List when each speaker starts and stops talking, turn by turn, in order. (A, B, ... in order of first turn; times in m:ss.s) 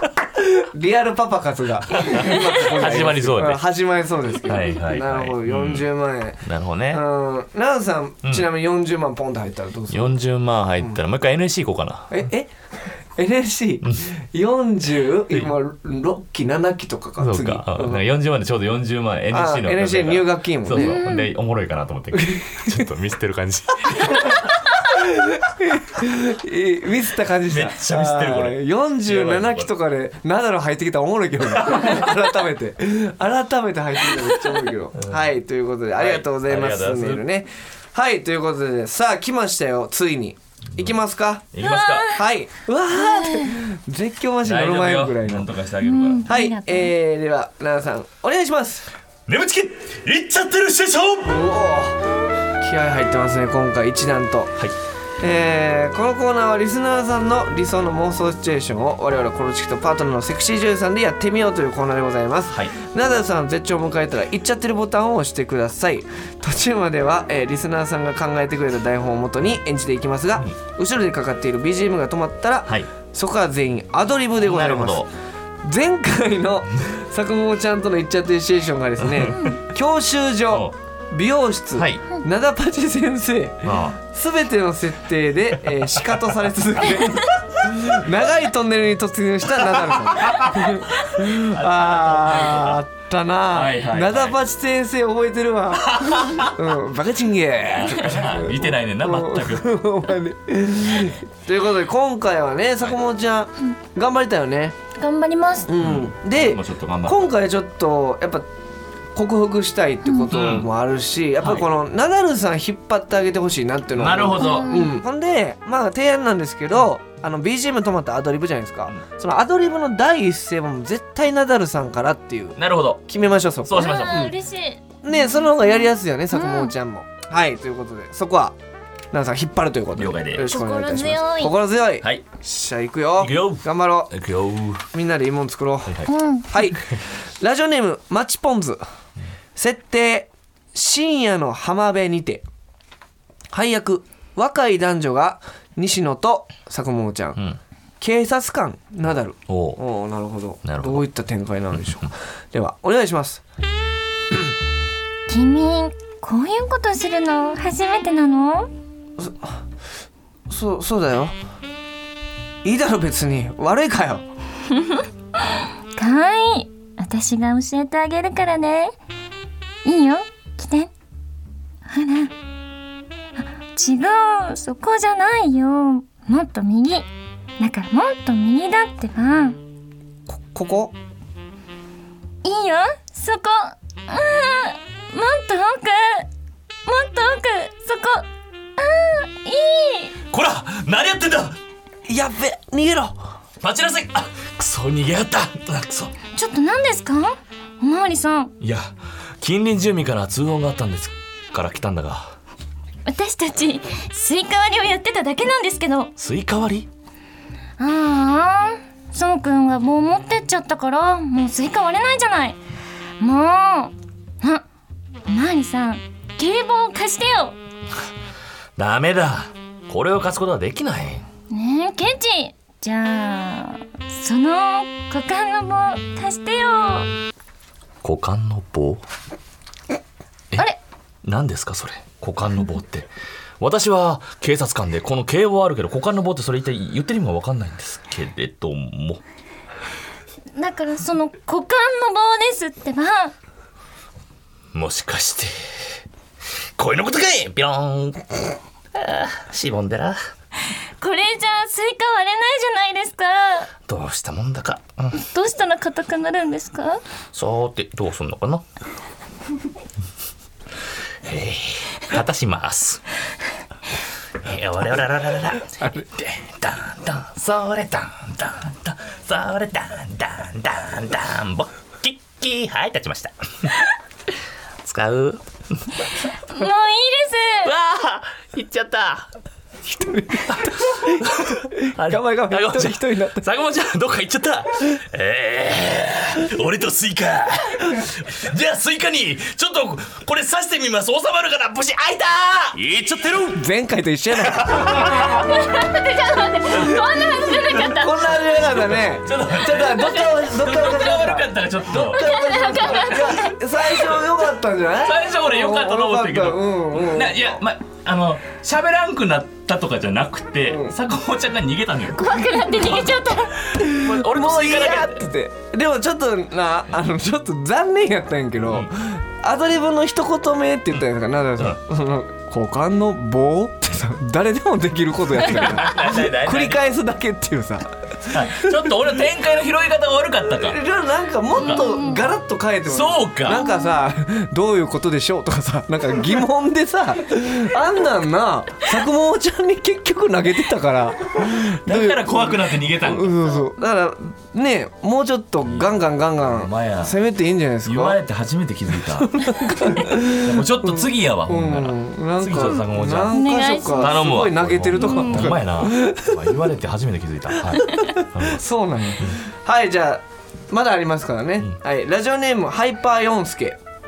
0:00.4-0:10.2 A
0:01.9-0:03.6 B
0:02.2-0:02.4 C
0:04.4-0:05.9 B
0:06.4-0:07.0 B
0:09.9-0:12.1 B
0:12.1-0:12.5 A
0:13.2-0:18.0 A
0:17.2-0:24.5 B
0:19.3-0:21.0 A
0:20.7-0:21.3 C
0:22.1-0:22.9 A
0:24.1-0:24.4 A
0:25.0-0:41.5 A
0:27.5-0:29.7 B
0:31.6-0:32.1 B
0:35.0-0:35.2 B
0:35.9-0:37.2 B
0:41.5-0:42.2 B
0:41.6-0:42.2 C
0:42.1-0:45.5 A
0:42.9-0:43.6 C
0:44.4-0:46.3 B
0:45.8-0:46.9 C
0:46.3-0:48.9 A
0:49.3-0:51.4 B
0:51.2-0:52.0 A
0:52.6-0:54.6 A
0:55.2-1:15.1 A
1:14.4-1:15.1 B
1:15.6-1:44.8 A
1:19.0-1:19.6 B
1:21.8-1:22.0 B
1:23.6-1:24.0 B
1:30.2-1:32.8 B
1:33.5-1:34.4 B
1:35.8-1:36.6 B
1:37.6-1:39.8 B
1:45.0-1:45.7 C
1:45.7-1:48.5 A
1:45.8-1:47.2 B
1:49.2-2:04.3 A
1:50.3-1:50.7 B
1:51.4-1:51.7 B
1:54.0-1:54.7 B
1:54.4-1:55.0 C
2:02.6-2:03.0 B
2:03.6-2:04.3 B
2:03.8-2:06.7 C
2:05.0-2:08.6 A
2:09.1-2:14.2 A
2:10.0-2:10.5 B
2:10.5-2:11.5 C
2:13.2-2:14.9 B
2:14.9-2:18.8 A
2:16.1-2:16.5 C
2:19.6-2:22.4 A
2:23.5-2:27.4 A
2:28.0-2:33.4 A
2:29.5-2:29.8 B
2:30.6-2:31.0 B
2:31.8-2:32.1 B
2:35.3-2:38.7 C
2:39.2-2:39.6 A
2:40.5-2:41.4 A
2:42.6-2:44.2 A
2:44.7-2:49.0 C
2:49.8-2:50.9 C
2:51.9-2:52.3 C
2:53.4-2:57.1 C
2:57.6-2:59.6 C
3:00.3-3:01.0 A
3:02.4-3:06.3 C
3:06.9-3:10.2 C
3:10.3-3:11.6 B
3:12.1-3:13.2 A
3:13.6-3:16.1 B
3:16.3-3:18.5 C
3:18.6-3:22.4 B
3:23.1-3:26.1 C
3:26.2-3:26.9 B
3:27.8-3:32.6 C
3:33.2-3:34.6 C
3:35.3-3:37.6 C
3:38.8-3:41.3 B
3:41.5-3:47.1 C
3:48.0-3:49.0 B
3:51.2-3:53.1 B
3:53.6-3:59.2 B
4:00.6-4:03.4 C
4:04.7-4:05.5 B
4:06.8-4:08.4 B
4:09.0-4:10.2 B
4:11.0-4:13.7 C
4:13.9-4:15.1 B
4:15.1-4:17.0 C
4:17.3-4:18.6 B
4:21.2-4:23.0 B
4:24.4-4:33.8 B
4:25.8-4:26.1 A
4:34.8-4:36.0 B
4:36.5-4:37.7 C
4:37.6-4:39.3 B
4:39.9-4:43.5 A
4:40.5-4:53.6 B
4:53.5-4:55.3 A
4:54.4-4:55.6 B
4:55.1-4:58.3 C
4:57.8-5:07.6 A
4:58.7-5:03.4 B
5:02.0-5:03.5 C
5:04.0-5:04.2 B
5:05.0-5:12.9 B
5:10.7-5:11.0 A
5:12.1-5:13.6 C
5:13.7-5:15.3 B
5:13.7-5:29.0 A
5:25.4-5:26.8 B
5:28.3-5:30.8 B
5:30.5-5:48.2 A
5:31.6-5:32.2 C
5:32.9-5:33.7 B
5:33.6-5:33.9 C
5:41.4-5:43.6 B
5:46.4-5:47.2 B
5:47.8-5:53.4 B
5:49.2-5:56.4 A
5:53.3-5:54.2 C
5:53.9-5:58.6 B
5:55.0-5:55.5 C
5:58.2-6:03.8 A